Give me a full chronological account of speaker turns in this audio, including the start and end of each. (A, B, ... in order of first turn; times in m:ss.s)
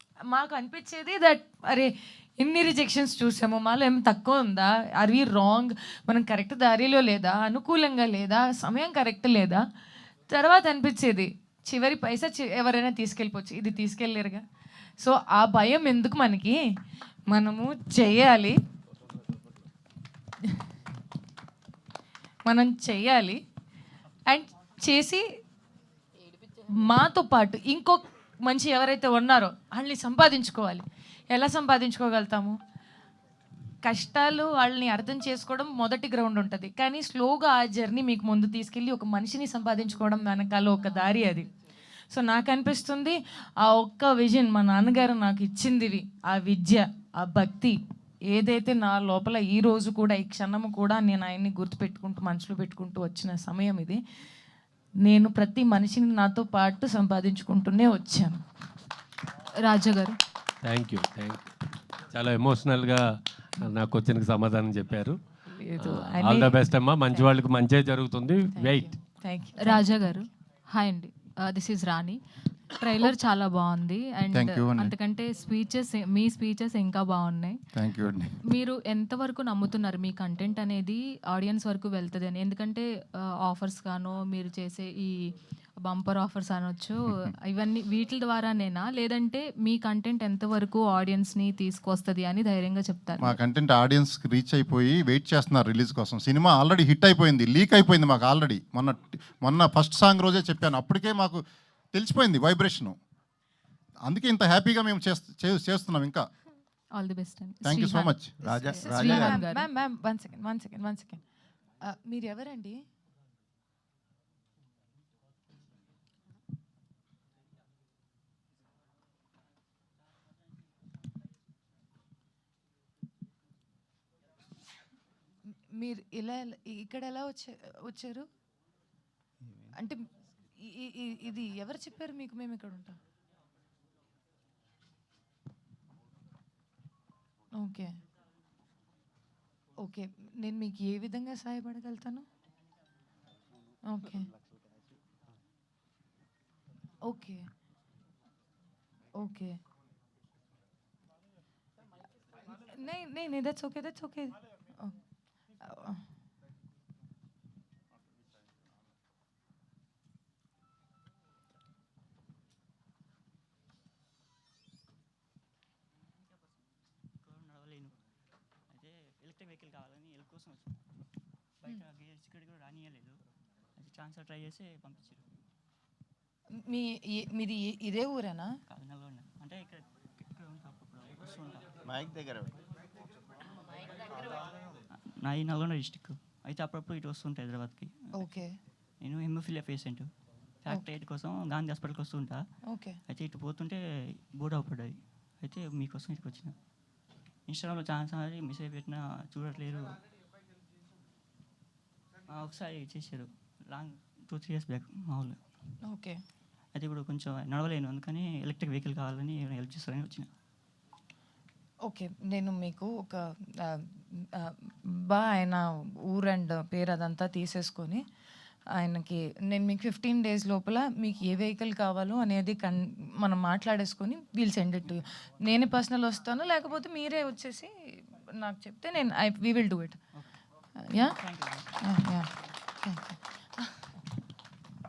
0:00.3-0:09.6 A
0:10.3-0:14.4 A
0:15.0-0:16.6 A
0:17.3-0:18.6 A
0:22.5-0:23.4 A
0:24.3-0:25.2 A
0:26.7-0:32.6 A
0:33.8-0:41.5 A
0:42.1-0:47.8 A
0:48.3-0:54.0 A
0:55.0-0:58.4 A
0:59.6-1:00.2 B
1:00.6-1:01.5 C
1:02.1-1:03.0 C
1:03.6-1:05.2 C
1:05.4-1:07.3 A
1:05.8-1:08.9 C
1:08.5-1:10.2 A
1:09.6-1:12.2 B
1:12.7-1:17.7 B
1:14.3-1:14.9 D
1:17.7-1:18.3 D
1:18.4-1:33.4 B
1:33.2-1:41.4 D
1:41.9-1:43.0 D
1:44.0-1:46.2 D
1:46.9-1:49.6 B
1:47.6-1:49.4 D
1:48.4-1:51.2 A
1:51.8-1:52.8 A
2:05.8-2:08.3 A
2:09.7-2:10.0 A
2:10.6-2:13.0 A
2:17.5-2:17.9 A
2:19.8-2:22.2 A
2:23.8-2:24.3 A
2:27.0-2:27.5 A
2:29.2-2:29.6 A
2:32.4-2:34.9 A
2:35.6-2:36.0 A
2:47.2-2:47.9 E
2:48.7-2:50.8 E
2:51.6-2:53.2 E
2:53.8-2:55.2 E
2:56.5-2:58.5 A
2:58.7-3:01.8 E
3:05.0-3:08.2 E
3:08.2-3:08.6 A
3:09.0-3:10.1 E
3:10.6-3:12.4 E
3:12.6-3:13.0 A
3:13.1-3:13.8 E
3:14.3-3:16.5 E
3:17.5-3:20.0 E
3:22.3-3:25.4 E
3:25.8-3:26.2 A
3:26.7-3:30.3 E
3:31.9-3:38.0 A
3:38.8-3:50.0 A
3:50.8-3:51.2 A
3:51.0-3:51.8 E
3:51.8-3:52.3 A
3:52.8-3:53.6 A